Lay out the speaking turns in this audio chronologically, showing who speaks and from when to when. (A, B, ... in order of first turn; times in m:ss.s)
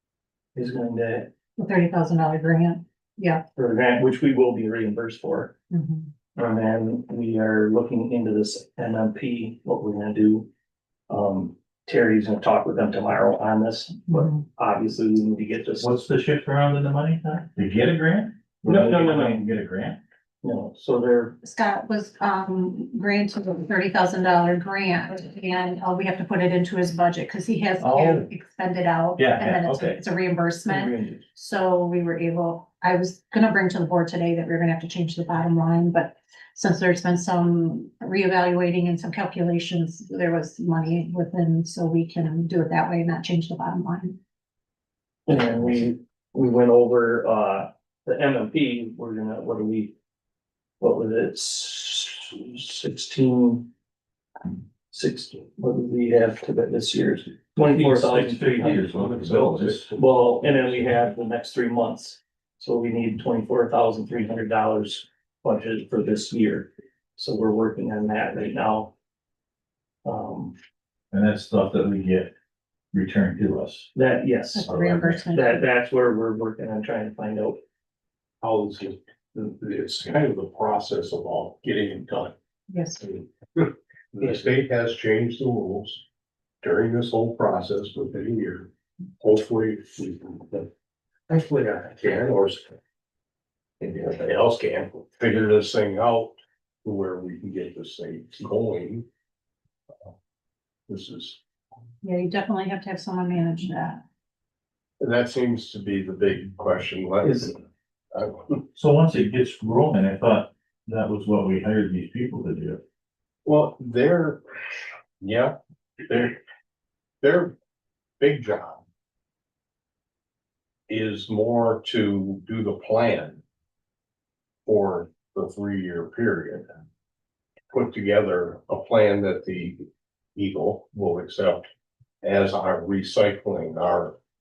0:00.5-0:01.3 A
0:01.6-0:03.4 B
0:03.5-0:05.5 A
0:05.7-0:06.1 B
0:06.3-0:10.5 A
0:11.1-0:15.9 A
0:14.1-0:14.4 B
0:15.8-0:20.0 C
0:18.6-0:19.4 A
0:20.4-0:21.4 A
0:21.4-0:44.2 B
0:27.8-0:28.3 C
0:29.2-0:30.0 C
0:30.6-0:31.2 A
0:45.3-0:49.9 A
0:50.8-0:53.7 A
0:54.9-0:58.8 A
0:57.7-0:59.9 C
0:58.9-1:00.8 D
0:59.9-1:08.9 A
1:10.0-1:10.6 A
1:11.1-1:12.3 C
1:12.9-1:13.9 C
1:13.9-1:14.7 A
1:14.5-1:15.6 B
1:14.7-1:15.2 C
1:15.3-1:17.6 A
1:18.4-1:22.3 D
1:22.7-1:23.0 B
1:23.0-1:26.0 D
1:26.6-1:28.7 D
1:29.2-1:30.7 D
1:31.3-1:32.7 D
1:33.8-1:39.0 D
1:40.9-1:41.4 D
1:42.0-1:44.0 B
1:45.0-1:47.6 D
1:47.2-1:47.5 A
1:48.1-1:48.6 D
1:48.7-1:52.8 C
1:53.4-1:56.4 D
1:57.2-1:57.5 D
1:58.2-1:58.8 D
2:00.9-2:03.4 D
2:04.6-2:06.7 D
2:07.7-2:11.7 D
2:12.2-2:14.2 D